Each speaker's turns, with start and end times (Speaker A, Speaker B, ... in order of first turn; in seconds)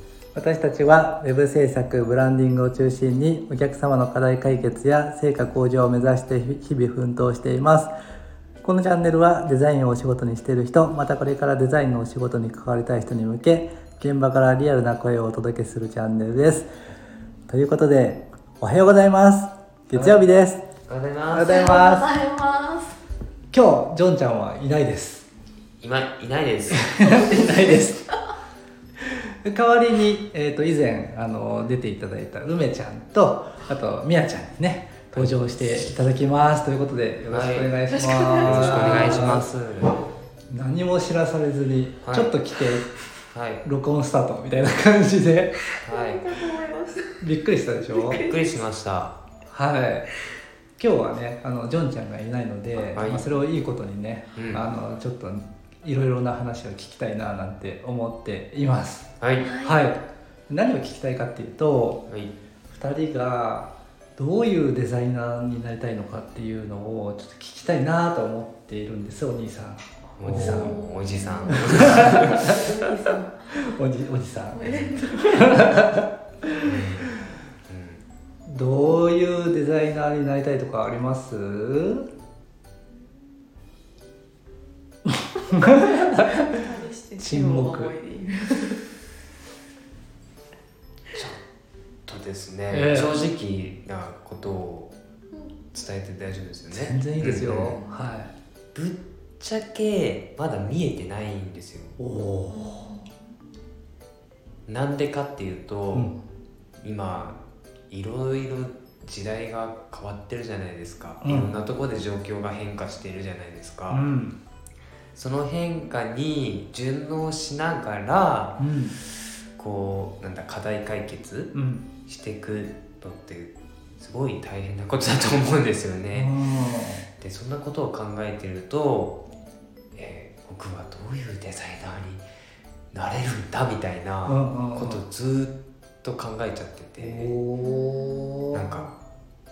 Speaker A: 0.3-7.9, 8.6-16.7, 17.5-20.6, 21.3-22.1, 23.5-25.2, 26.7-28.1, 29.0-39.5, 40.5-42.9, 43.6-45.6, 47.2-48.2, 49.5-50.0, 50.8-62.0, 62.7-70.8, 71.5-72.7, 73.5-77.1, 78.5-82.1, 85.1-86.5, 87.2-87.9, 92.7-93.3, 96.7-98.3, 102.0-102.9, 111.2-111.5, 113.9-114.4, 118.6-118.9, 121.5-121.8, 126.1-127.1, 134.2-135.0, 137.0-138.9
Speaker B: 19.9-20.2, 20.9-21.5, 25.8-27.3, 35.1-35.9, 37.3-37.8, 38.4-40.0, 42.0-42.3, 43.3-43.6, 45.8-46.4, 48.1-49.1, 52.9-53.3, 54.3-54.6, 59.2-59.5, 70.2-72.6, 76.6-77.2, 77.7-78.0, 91.1-91.4, 92.0-94.9, 95.7-97.8, 98.7-101.9, 104.7-106.1, 106.8-107.4, 107.9-114.0, 115.1-118.6, 119.6-121.5, 122.0-126.3, 127.2-129.2, 129.9-132.2, 132.9-137.3, 138.5-139.0
Speaker C: 21.4-23.0, 27.4-27.8, 37.9-39.2, 45.9-47.3, 47.9-48.6, 59.4-59.8, 70.3-73.5, 74.5-75.8, 85.6-88.8, 97.7-98.0, 102.5-103.1, 137.6-138.5